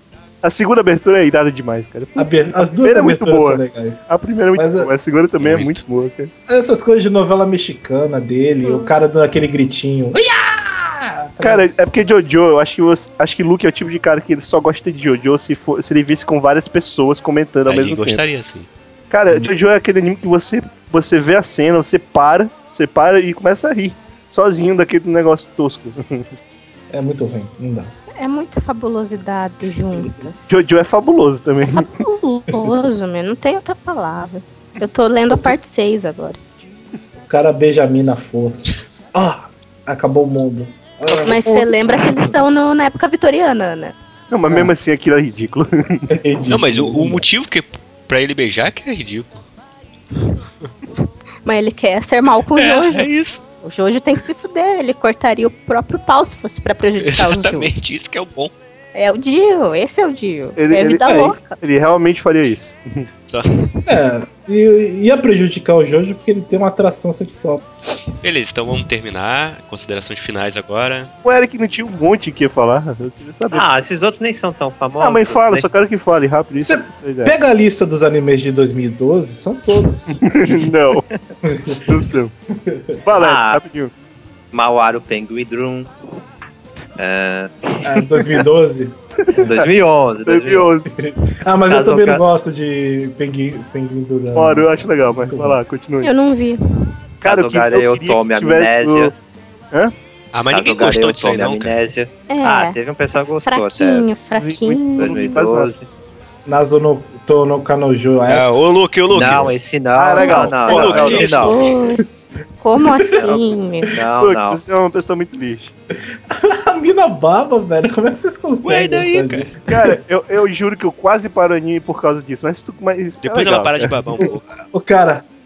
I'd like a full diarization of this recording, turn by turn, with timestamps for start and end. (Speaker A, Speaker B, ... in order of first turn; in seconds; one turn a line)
Speaker A: 0.4-6.3
Speaker B: 2.2-4.9
Speaker C: 5.4-5.8
Speaker B: 6.5-11.7
Speaker D: 8.6-8.9
Speaker A: 11.4-18.2
Speaker C: 17.6-18.7
Speaker A: 19.1-26.3
Speaker B: 26.9-27.9
Speaker D: 28.2-30.4
Speaker B: 29.9-30.3
Speaker A: 30.5-31.9
Speaker D: 31.7-36.4
Speaker B: 37.2-41.7
Speaker A: 41.0-41.5
Speaker D: 41.2-43.9
Speaker A: 44.3-46.1
Speaker B: 44.5-44.7
Speaker B: 46.1-47.2
Speaker C: 46.5-49.4
Speaker D: 51.5-53.1
Speaker C: 52.5-53.4
Speaker D: 53.6-57.7
Speaker C: 57.0-58.5
Speaker D: 58.9-61.6
Speaker A: 60.5-63.1
Speaker C: 63.2-63.5
Speaker B: 63.9-67.7
Speaker C: 68.2-71.1
Speaker A: 71.2-73.6
Speaker E: 73.5-75.7
Speaker A: 75.0-77.3
Speaker B: 76.6-80.2
Speaker A: 80.2-81.1
Speaker B: 81.4-81.8
Speaker A: 81.8-82.3
Speaker B: 82.6-83.0
Speaker A: 83.0-83.9
Speaker E: 83.2-83.6
Speaker E: 84.5-85.9
Speaker E: 87.0-87.9
Speaker B: 87.8-89.5
Speaker A: 89.2-89.7
Speaker E: 89.4-90.7
Speaker A: 90.2-90.9
Speaker B: 91.0-95.6
Speaker E: 91.7-92.2
Speaker A: 94.3-96.1
Speaker D: 96.0-96.6
Speaker A: 97.2-99.1
Speaker E: 97.2-99.1
Speaker C: 100.3-101.8
Speaker E: 100.5-104.1
Speaker D: 102.3-102.8
Speaker D: 103.4-105.3
Speaker A: 104.3-105.7
Speaker E: 105.0-105.9
Speaker B: 106.5-108.9
Speaker C: 108.3-109.5
Speaker E: 109.1-111.6
Speaker A: 110.0-111.8
Speaker C: 110.3-111.7
Speaker D: 111.2-113.9
Speaker E: 113.9-114.6
Speaker A: 114.2-115.7
Speaker B: 116.3-120.0
Speaker C: 118.6-119.5
Speaker A: 119.7-124.3
Speaker C: 123.2-124.4
Speaker B: 124.7-125.2